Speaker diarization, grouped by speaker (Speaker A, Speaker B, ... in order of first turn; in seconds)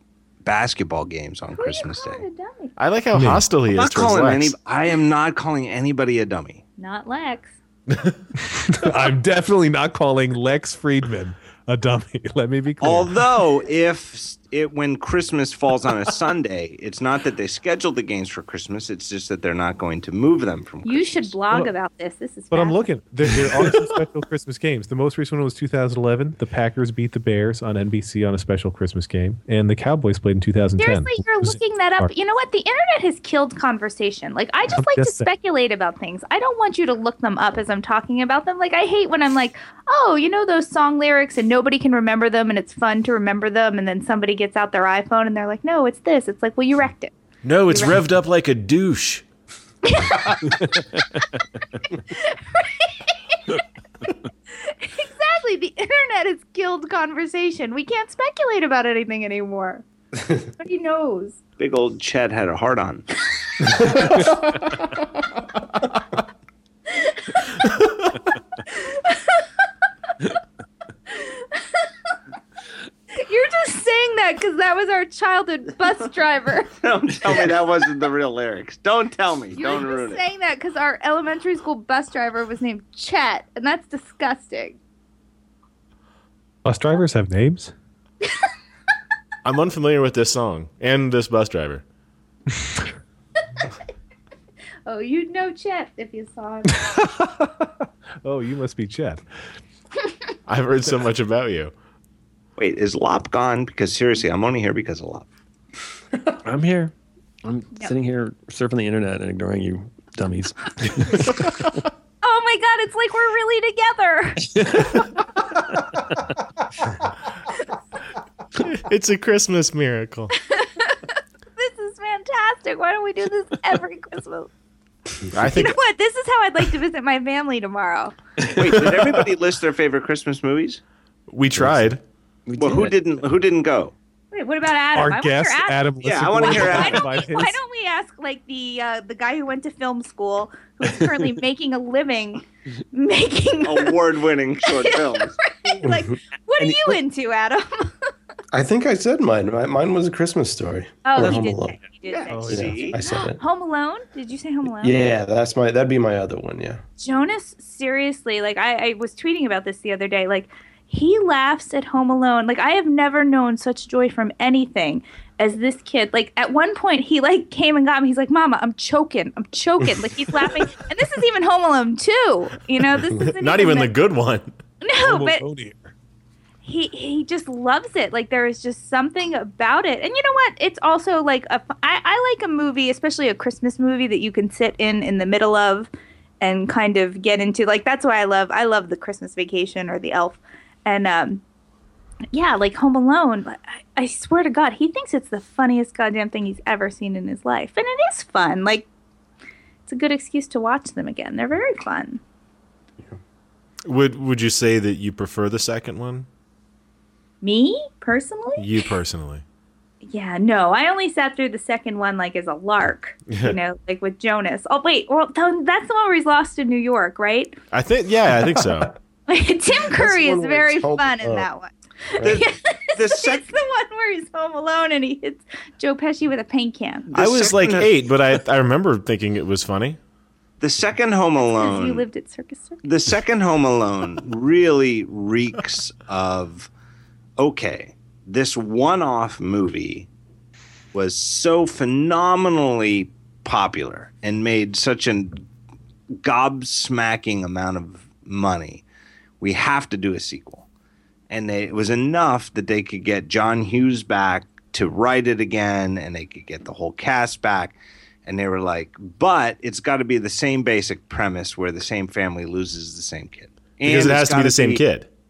Speaker A: 0.4-2.2, 3.7-6.6, 12.8-21.4, 61.6-63.0, 76.8-80.2, 102.6-105.3, 128.5-130.8, 132.6-133.9, 136.0-137.1, 143.6-145.4, 152.1-153.0, 222.2-223.5, 227.1-227.9, 230.6-232.1, 232.8-236.7, 237.4-240.1, 240.9-245.4, 246.2-248.8, 249.4-250.7, 251.3-264.8
Speaker B: 1.5-2.7, 6.8-7.5, 20.8-22.8, 30.8-47.1, 47.7-48.0, 49.8-50.9, 51.9-61.4, 63.6-64.3, 66.9-67.9, 68.7-69.5, 71.1-72.1, 73.1-76.7, 79.5-84.8, 94.9-97.0, 112.2-115.2, 120.3-124.5, 125.4-128.2, 134.3-144.1, 144.7-148.1, 151.1-154.9, 157.0-173.9, 174.8-175.4, 176.6-185.9, 186.4-191.4, 192.3-198.9, 199.9-202.2, 207.4-208.9, 210.0-217.6, 219.3-227.1, 231.6-232.8
Speaker C: 2.8-4.5, 47.4-49.2, 89.4-91.8, 100.5-101.7, 118.6-120.3, 125.3-125.8, 131.3-132.0, 173.1-174.6, 203.8-206.3, 208.6-209.4, 213.3-213.6, 217.7-219.0, 227.1-230.0, 263.8-265.1
Speaker D: 3.1-3.4, 8.5-13.2, 22.5-32.1, 34.8-35.3, 86.6-87.7, 96.7-97.7, 98.2-99.2, 134.9-137.6, 152.3-152.8, 174.9-175.9
Speaker E: 106.4-106.9, 107.4-111.7, 114.5-114.9, 132.5-133.0
Speaker F: 145.8-146.1, 148.5-151.8, 152.5-153.4, 154.8-156.8, 219.8-221.5